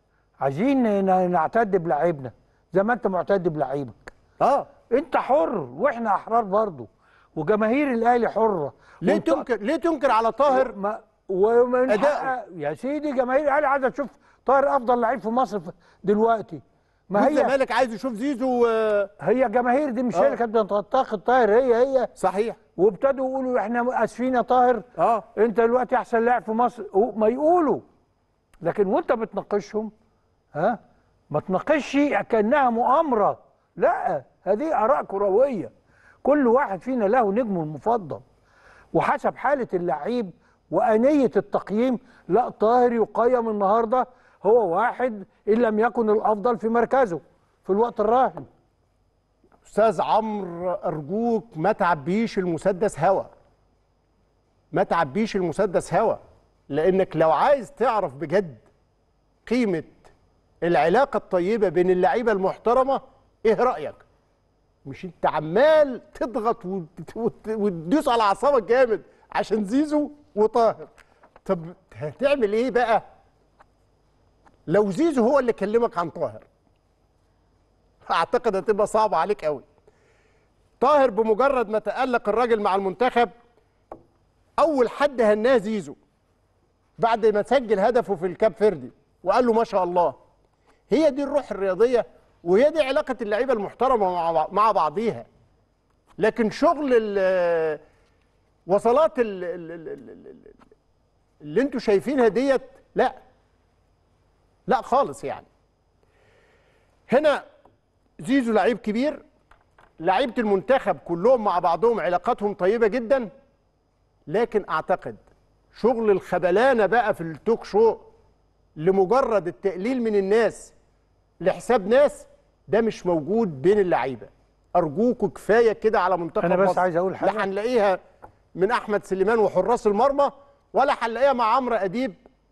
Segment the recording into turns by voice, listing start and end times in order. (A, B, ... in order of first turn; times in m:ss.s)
0:00.4-0:04.1 A
0:04.4-0:04.7 B
0:04.9-0:09.4 A
0:09.0-0:10.7 B
0:10.5-0:17.5 A
0:11.9-0:12.3 B
0:17.1-0:19.1 B
0:19.2-0:22.1 A
0:20.1-0:20.4 B
0:22.2-0:22.6 B
0:22.8-0:24.8 A
0:25.0-0:25.2 B
0:25.4-0:27.8 A
0:28.6-0:29.9 A
0:30.5-0:30.8 A
0:31.3-0:38.2 A
0:38.9-0:48.5 A
0:49.6-0:53.3 B
0:54.7-0:58.6 B
0:59.4-1:00.0 B
1:00.6-1:04.0 B
1:04.8-1:10.9 B
1:11.4-1:13.0 B
1:14.7-1:16.4 B
1:18.1-1:19.6 B
1:20.8-1:23.3 B
1:24.6-1:26.0 B
1:27.0-1:30.1 B
1:30.9-1:35.2 B
1:36.2-1:37.8 B
1:38.7-1:40.5 B
1:41.4-1:43.1 B
1:44.7-1:45.4 B
1:47.1-1:47.4 B
1:48.2-1:49.2 B
1:50.0-1:53.3 B
1:54.3-1:55.2 B
1:55.7-1:58.0 B
1:58.8-2:00.7 B
2:01.4-2:08.0 B
2:06.4-2:07.5 A
2:08.6-2:12.1 B